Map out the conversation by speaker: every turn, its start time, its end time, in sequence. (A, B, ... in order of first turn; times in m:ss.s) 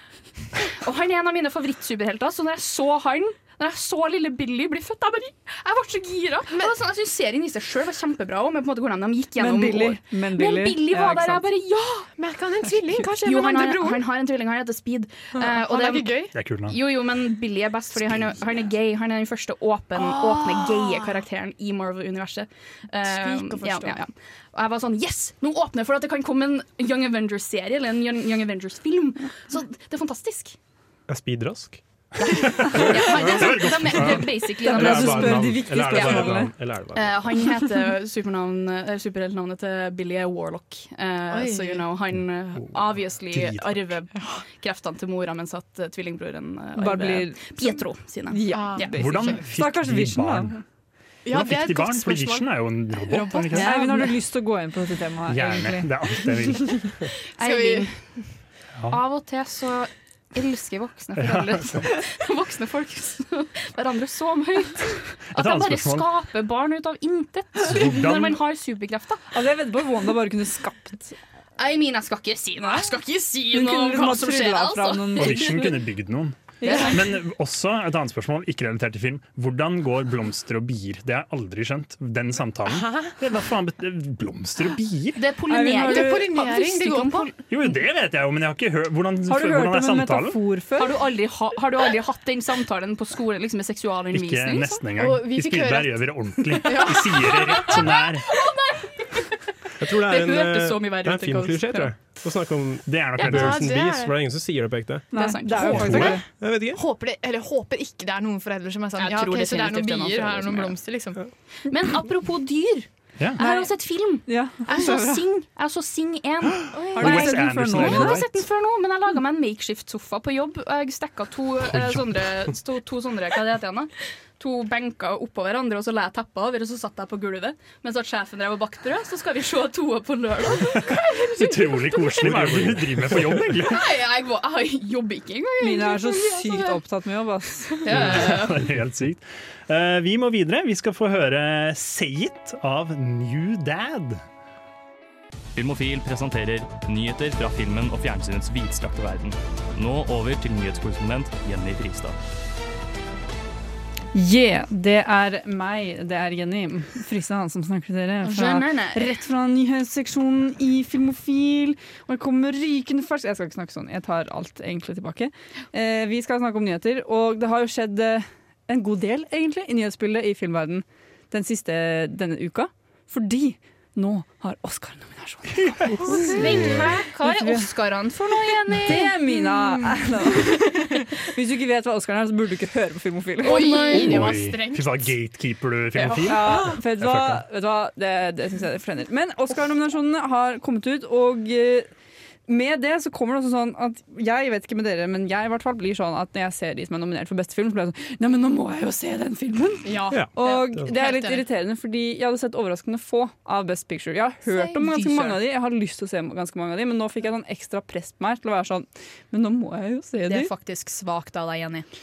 0:00.5-0:12.1 A
0:09.4-0:11.4 B
0:12.2-0:14.0 C
0:13.0-0:30.6 A
0:15.4-0:16.4 C
0:16.3-0:16.8 D
0:20.0-0:21.2 C
0:23.1-0:24.0 C
0:31.1-0:37.2 E
0:32.2-0:36.4 A
0:33.3-0:34.2 D
0:34.6-0:36.5 B
0:36.9-0:49.0 A
0:41.3-0:41.8 C
0:43.3-0:43.9 D
0:46.8-0:50.6 B
0:48.5-0:49.4 C
0:48.9-0:50.6 D
0:51.2-0:54.1 C
0:51.3-0:53.7 D
0:53.5-0:55.9 B
0:53.7-0:54.0 A
0:55.3-0:57.0 D
0:57.4-0:57.9 C
0:57.4-0:58.0 A
0:58.9-1:09.2 A
1:01.2-1:01.8 D
1:05.3-1:06.0 D
1:07.6-1:08.4 D
1:09.3-1:11.2 B
1:11.6-1:15.6 A
1:12.6-1:12.9 B
1:13.5-1:15.8 B
1:15.2-1:25.2 D
1:16.6-1:17.0 B
1:22.7-1:23.1 C
1:25.2-1:27.3 A
1:25.5-1:26.3 B
1:25.8-1:27.3 C
1:27.5-1:30.4 D
1:29.3-1:31.0 B
1:30.8-1:34.8 A
1:34.1-1:38.3 D
1:34.9-1:38.1 C
1:39.8-1:46.8 E
1:40.0-1:41.9 A
1:42.8-1:43.7 D
1:43.2-1:44.2 C
1:45.1-1:46.2 B
1:45.1-1:46.1 A
1:45.7-1:46.0 D
1:45.8-1:51.2 C
1:49.0-1:50.8 A
1:51.7-2:11.0 A
1:53.4-1:53.7 B
1:54.2-1:55.2 B
1:56.7-1:57.2 C
1:57.0-1:58.4 D
1:57.0-1:58.2 B
2:01.7-2:02.0 D
2:10.7-2:12.3 C
2:10.9-2:14.0 D
2:12.3-2:13.4 E
2:13.6-2:16.8 A
2:15.6-2:17.8 B
2:17.8-2:18.7 A
2:17.9-2:24.2 D
2:25.6-2:32.2 F
2:34.1-2:56.4 B
2:38.2-2:39.2 A
2:56.1-2:59.1 A
2:56.1-2:56.4 C
2:57.2-2:57.7 B
2:58.8-3:03.9 B
2:59.4-3:01.0 C
3:03.4-3:05.1 C
3:03.4-3:04.0 A
3:04.0-3:07.4 D
3:06.0-3:06.7 C
3:06.2-3:11.9 B
3:12.5-3:30.5 B
3:19.8-3:21.4 C
3:20.1-3:20.9 E
3:24.5-3:25.4 A
3:30.3-3:31.8 A